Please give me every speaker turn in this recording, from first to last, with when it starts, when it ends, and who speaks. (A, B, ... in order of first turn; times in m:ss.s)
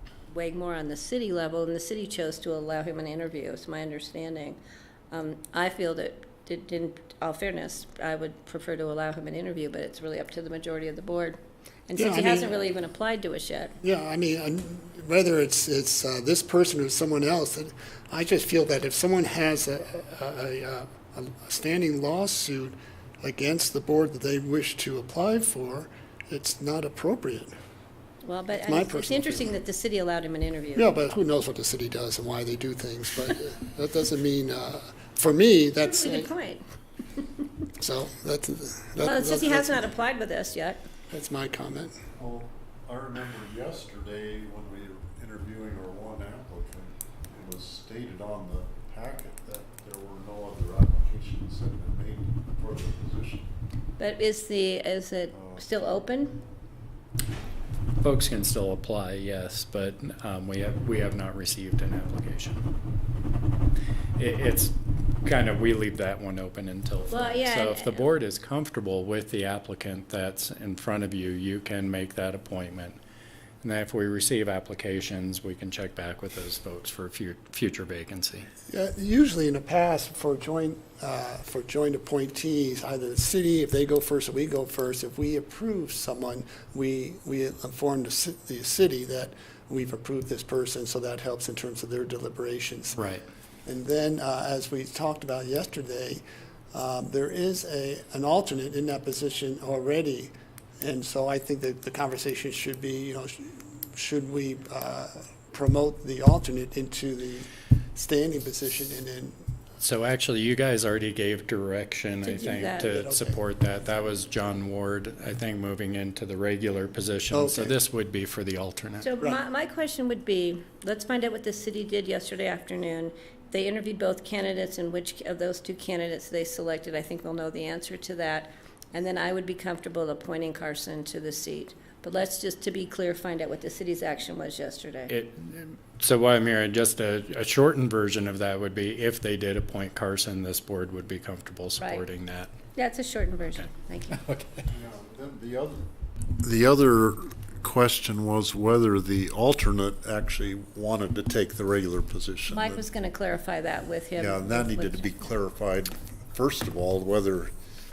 0:00.3-0:04.6 A
0:05.1-0:13.8 A
0:12.0-0:12.5 B
0:13.8-0:27.5 B
0:28.2-0:30.8 A
0:28.6-0:29.6 B
0:30.8-0:36.3 B
0:35.8-0:36.6 A
0:37.8-0:39.9 B
0:39.0-0:40.8 A
0:41.1-0:42.0 B
0:42.2-0:53.5 C
0:54.0-0:56.4 A
0:55.3-0:55.6 C
0:58.0-1:02.6 D
1:04.2-1:13.0 D
1:07.1-1:08.0 A
1:13.6-1:18.5 D
1:18.7-1:33.1 B
1:33.0-1:33.2 D
1:33.6-1:36.2 B
1:36.7-1:49.4 B
1:49.8-1:59.1 D
1:52.2-1:52.9 A
1:52.8-1:53.4 B
1:57.3-1:57.8 B
1:59.0-2:15.1 A
2:15.1-2:22.5 D
2:22.7-2:24.2 A
2:24.1-2:24.6 D
2:24.7-2:25.8 C
2:26.4-2:32.8 C
2:32.5-2:35.3 A
2:34.2-2:37.5 C